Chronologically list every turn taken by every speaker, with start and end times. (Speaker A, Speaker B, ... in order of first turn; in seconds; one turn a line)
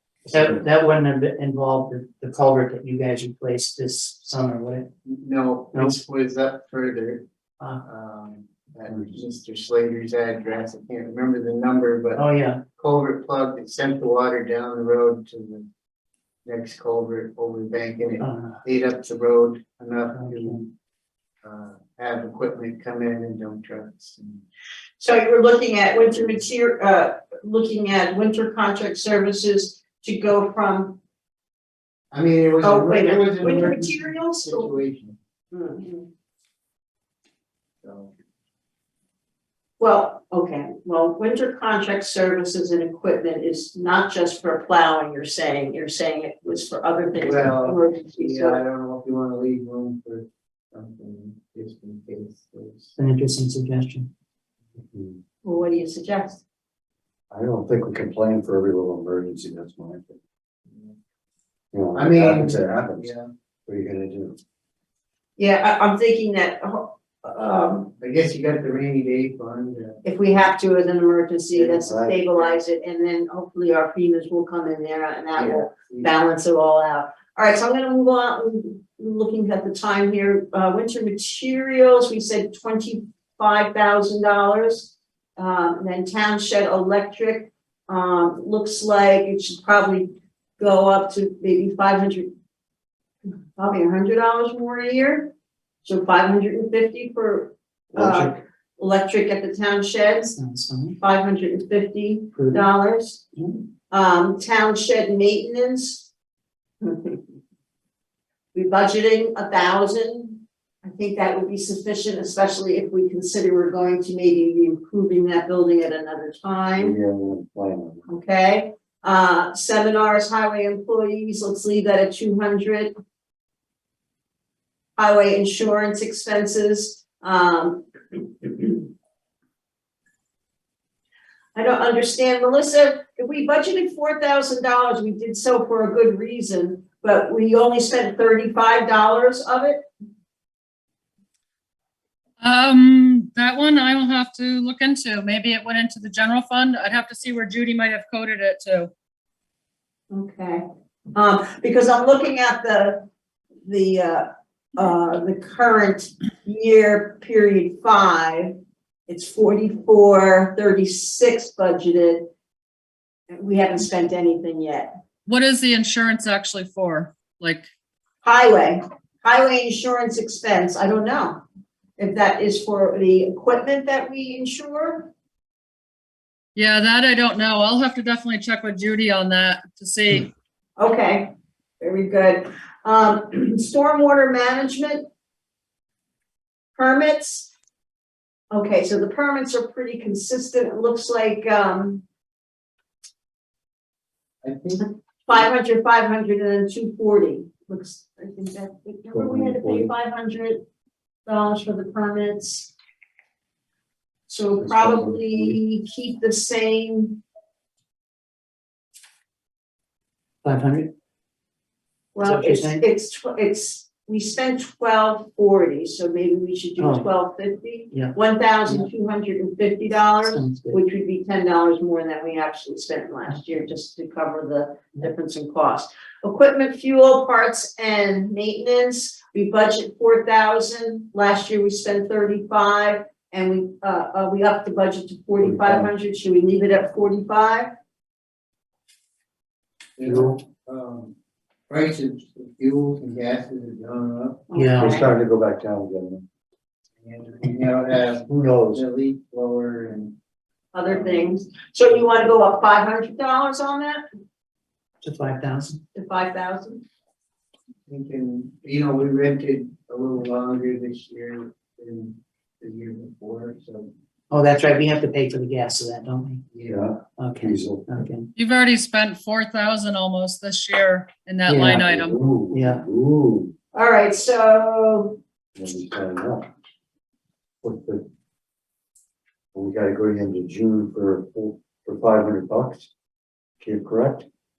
Speaker A: 0.3-0.6
Speaker B: 0.3-4.9
Speaker C: 5.0-7.2
Speaker B: 5.7-6.0
Speaker C: 7.8-12.2
Speaker B: 12.1-12.6
Speaker C: 12.8-15.7
Speaker C: 16.4-20.7
Speaker B: 18.2-18.6
Speaker B: 20.1-20.6
Speaker C: 21.4-24.4
Speaker D: 25.0-31.0
Speaker C: 32.1-35.2
Speaker D: 32.6-34.8
Speaker D: 35.5-36.1
Speaker C: 37.8-38.1
Speaker D: 39.8-48.6
Speaker C: 47.1-52.9
Speaker B: 53.0-54.1
Speaker A: 54.9-55.2
Speaker D: 55.4-56.4
Speaker A: 57.3-60.2
Speaker A: 61.7-63.1
Speaker C: 61.9-63.3
Speaker A: 63.7-64.4
Speaker D: 65.4-67.9
Speaker C: 68.0-70.0
Speaker D: 70.0-92.3
Speaker A: 71.5-72.2
Speaker C: 75.3-76.1
Speaker D: 93.5-95.3
Speaker D: 95.8-100.3
Speaker A: 97.9-98.4
Speaker B: 100.2-101.0
Speaker D: 101.0-103.2
Speaker B: 102.3-102.7
Speaker D: 103.9-106.1
Speaker D: 106.8-107.2
Speaker D: 108.5-117.0
Speaker A: 116.8-118.0
Speaker D: 118.1-122.9
Speaker D: 125.0-128.9
Speaker D: 131.5-139.8
Speaker E: 142.4-148.9
Speaker D: 150.1-150.6
Speaker D: 151.1-153.1
Speaker D: 153.7-158.6
Speaker D: 159.1-162.3
Speaker D: 163.3-164.9
Speaker E: 165.2-167.7
Speaker D: 168.2-171.4
Speaker D: 172.0-175.1
Speaker E: 176.5-180.3
Speaker D: 180.8-185.0
Speaker D: 186.8-187.5
Speaker D: 188.5-192.0
Speaker C: 194.4-195.4
Speaker D: 194.8-200.6
Speaker A: 199.1-199.9
Speaker D: 201.2-202.7
Speaker D: 204.3-207.2
Speaker A: 204.6-205.6
Speaker B: 210.4-210.9
Speaker D: 212.1-237.7
Speaker B: 212.2-212.8
Speaker B: 216.8-217.1
Speaker B: 217.9-218.9
Speaker B: 220.2-220.8
Speaker A: 235.4-235.9
Speaker C: 240.0-241.1
Speaker A: 240.0-240.4
Speaker C: 241.7-244.5
Speaker D: 244.5-245.1
Speaker B: 244.5-245.1
Speaker A: 244.8-246.2
Speaker C: 247.0-250.1
Speaker A: 248.1-248.8
Speaker D: 250.7-254.0
Speaker C: 251.0-251.3
Speaker B: 255.0-255.8
Speaker D: 255.9-256.8
Speaker C: 257.9-263.9
Speaker B: 264.3-266.4
Speaker C: 266.5-266.9
Speaker A: 266.7-267.9
Speaker B: 267.1-268.3
Speaker E: 268.4-272.2
Speaker B: 271.5-271.8
Speaker A: 271.6-273.5
Speaker B: 272.5-272.8
Speaker D: 273.7-275.2
Speaker A: 275.6-276.5
Speaker A: 277.6-278.1
Speaker A: 279.5-282.9
Speaker A: 283.6-284.3